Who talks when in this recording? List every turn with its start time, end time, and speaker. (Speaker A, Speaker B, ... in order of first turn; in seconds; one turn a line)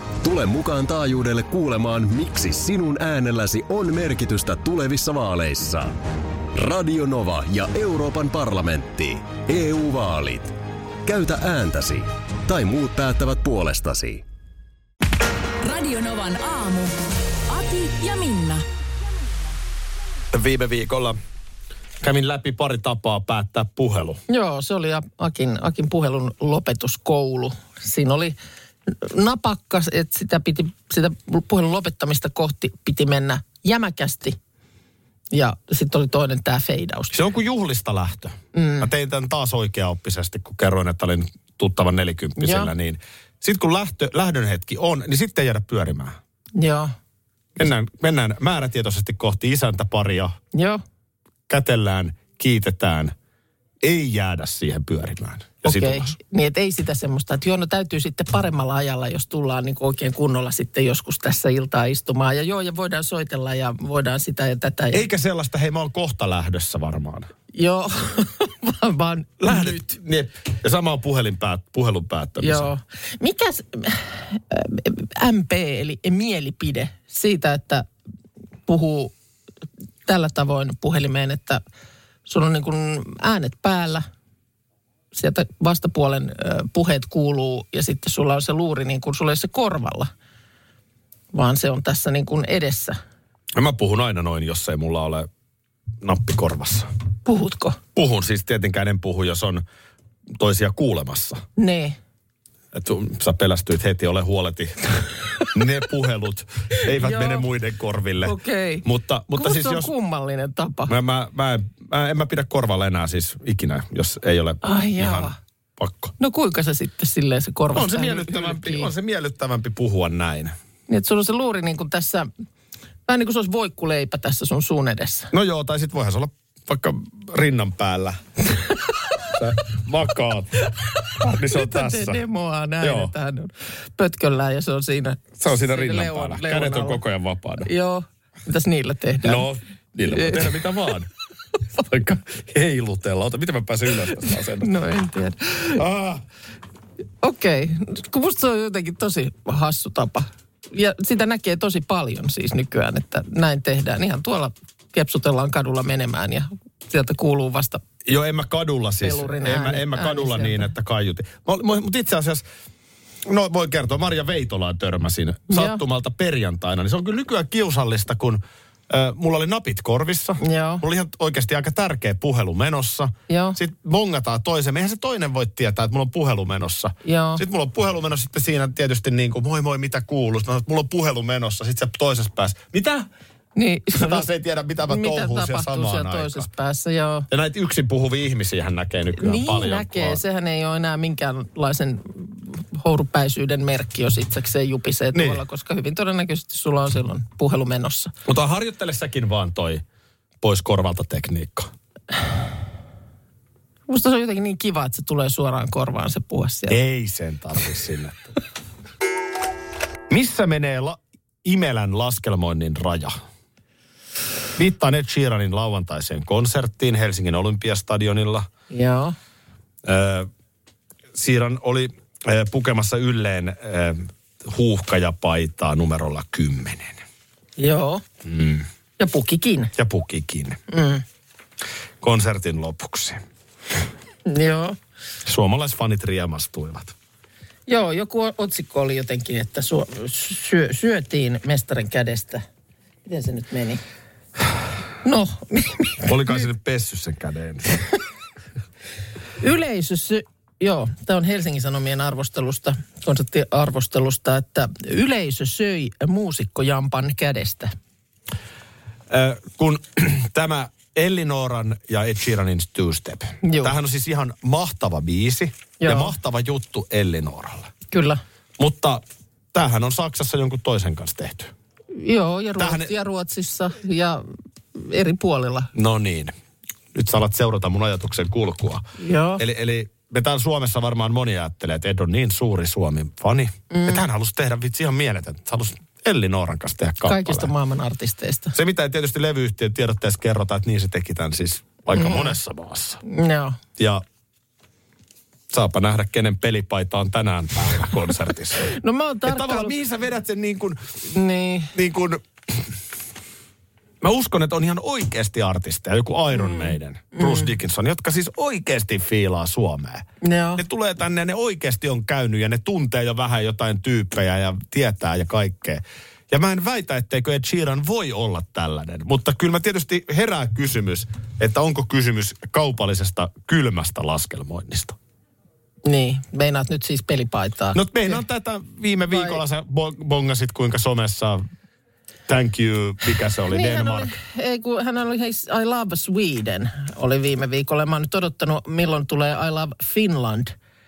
Speaker A: 0.2-6.0
Speaker A: 6.5-14.2
Speaker B: 15.6-17.0
Speaker B: 17.5-18.6
Speaker C: 20.3-21.2
Speaker C: 22.0-24.2
Speaker D: 24.3-28.4
Speaker D: 28.9-34.4
Speaker D: 35.3-37.2
Speaker C: 37.1-46.2
Speaker D: 38.5-38.9
Speaker D: 42.4-42.7
Speaker D: 46.6-46.9
Speaker C: 47.6-50.4
Speaker D: 50.5-50.8
Speaker C: 51.5-53.1
Speaker C: 53.8-56.2
Speaker D: 55.6-65.0
Speaker C: 64.9-67.3
Speaker D: 67.5-69.9
Speaker C: 69.4-72.7
Speaker D: 72.4-77.9
Speaker D: 78.7-79.1
Speaker D: 80.1-81.6
Speaker D: 82.3-84.1
Speaker D: 85.1-90.1
Speaker D: 91.3-93.0
Speaker C: 93.6-95.3
Speaker C: 96.0-96.9
Speaker D: 97.3-97.8
Speaker C: 98.0-99.6
Speaker C: 100.4-101.4
Speaker D: 101.6-102.0
Speaker C: 102.7-104.8
Speaker C: 105.5-109.9
Speaker D: 106.8-107.5
Speaker D: 108.2-110.9
Speaker C: 110.9-116.1
Speaker D: 114.6-115.3
Speaker D: 116.2-118.9
Speaker C: 117.7-120.5
Speaker D: 120.9-122.3
Speaker D: 123.1-125.3
Speaker C: 125.3-128.2
Speaker C: 129.3-130.6
Speaker D: 130.9-137.0
Speaker C: 131.1-132.2
Speaker C: 132.8-133.1
Speaker C: 135.4-137.7
Speaker D: 137.6-139.5
Speaker C: 139.2-141.1
Speaker D: 140.1-140.5
Speaker C: 141.8-144.7
Speaker D: 144.6-145.8
Speaker C: 145.7-146.2
Speaker D: 147.2-157.8
Speaker C: 158.1-162.4
Speaker D: 159.0-160.7
Speaker C: 163.2-183.1
Speaker D: 165.5-165.8
Speaker D: 170.4-170.8
Speaker D: 173.3-173.6
Speaker D: 177.1-177.4
Speaker D: 183.6-184.3
Speaker C: 183.9-186.5
Speaker D: 184.9-187.3
Speaker C: 187.3-190.2
Speaker D: 189.2-198.1
Speaker C: 195.1-195.4
Speaker C: 198.3-199.8
Speaker C: 200.4-201.7
Speaker D: 203.9-206.8
Speaker C: 206.7-208.4
Speaker C: 210.1-213.2
Speaker C: 214.6-218.5
Speaker D: 218.7-219.2
Speaker C: 219.8-220.3
Speaker C: 221.1-227.0
Speaker D: 227.6-228.0
Speaker C: 228.2-228.7
Speaker D: 229.0-229.7
Speaker C: 229.8-230.6
Speaker D: 230.7-231.0
Speaker C: 232.0-233.2
Speaker D: 234.3-234.8
Speaker C: 235.2-236.9
Speaker D: 237.7-242.4
Speaker D: 243.1-243.8
Speaker D: 245.0-246.3
Speaker C: 246.0-247.8
Speaker D: 249.4-257.7
Speaker C: 259.1-267.7
Speaker D: 263.4-263.7
Speaker D: 265.8-266.1
Speaker D: 267.9-268.2
Speaker C: 268.6-269.0
Speaker C: 269.5-271.5
Speaker D: 271.9-274.2
Speaker C: 272.6-272.9
Speaker D: 274.8-275.7
Speaker C: 275.7-276.3
Speaker C: 276.9-278.9
Speaker D: 279.0-279.4
Speaker C: 279.4-287.5
Speaker D: 283.7-284.0
Speaker D: 287.0-288.6
Speaker C: 288.5-293.0
Speaker D: 291.9-292.4
Speaker D: 293.1-293.6
Speaker C: 293.8-294.0
Speaker C: 295.5-298.7
Speaker D: 298.6-299.8
Speaker C: 299.2-300.8
Speaker D: 301.1-301.7
Speaker C: 301.7-302.2
Speaker C: 304.0-310.1
Speaker D: 306.4-307.5
Speaker D: 310.2-310.6
Speaker C: 310.6-325.0
Speaker D: 325.9-328.2
Speaker C: 327.7-331.4
Speaker D: 329.1-329.4
Speaker C: 332.3-334.2
Speaker D: 333.5-340.5